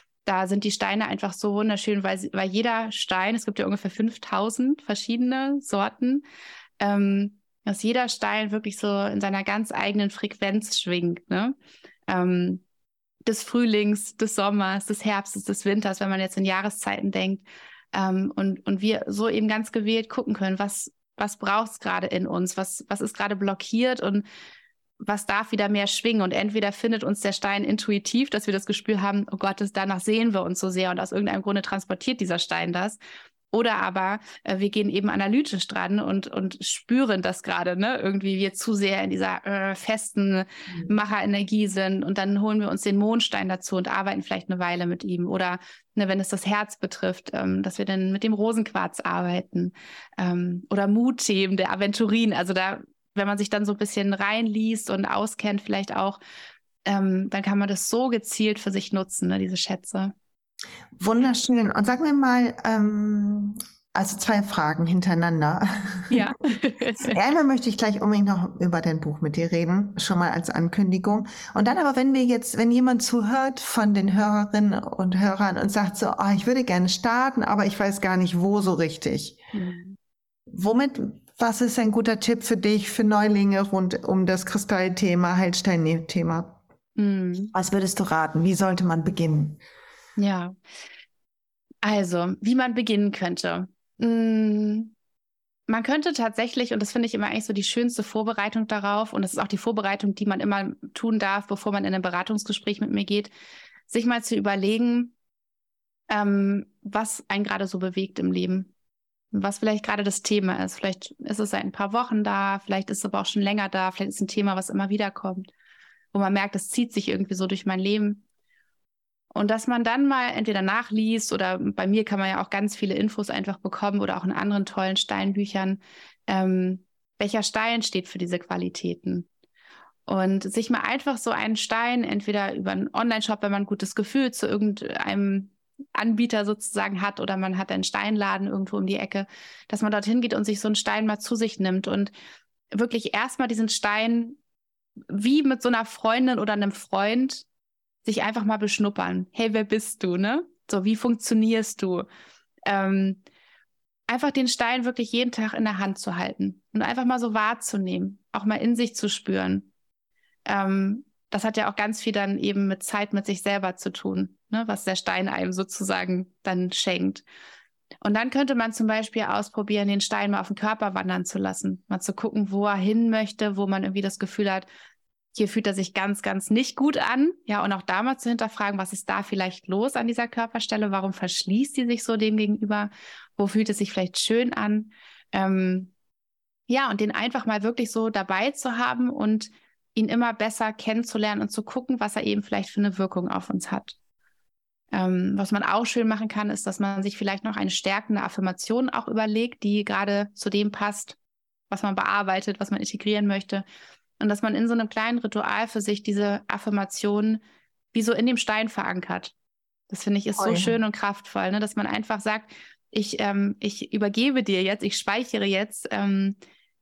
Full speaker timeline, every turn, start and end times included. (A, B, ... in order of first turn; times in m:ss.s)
0:00.2-0:06.2 A
0:06.8-0:11.5 A
0:12.1-0:12.6 A
0:13.2-0:24.2 A
0:25.0-0:33.0 A
0:33.5-0:56.2 A
0:56.8-1:00.1 A
1:01.0-1:06.2 B
1:06.1-1:07.2 A
1:07.1-1:19.4 B
1:19.5-1:20.0 A
1:20.5-1:26.6 B
1:27.0-1:27.5 A
1:27.5-1:29.6 B
1:30.2-1:30.6 A
1:31.8-1:34.9 A
1:35.7-1:43.3 A
1:43.9-1:45.1 A
1:46.1-1:48.7 A
1:49.3-1:55.5 A
1:56.1-1:58.2 A
1:59.3-2:09.3 A
2:10.1-2:22.1 A
2:22.7-2:24.4 A
2:25.1-2:27.4 A
2:28.0-2:32.0 A
2:32.6-2:33.2 A
2:34.1-2:39.7 A
2:40.4-2:47.2 A
2:48.0-2:54.6 A
2:55.3-3:05.9 A
3:06.7-3:14.0 A
3:14.9-3:21.2 A
3:21.7-3:23.6 A
3:24.2-3:27.4 A
3:27.9-3:29.3 A
3:29.9-3:36.4 A
3:30.4-3:30.8 B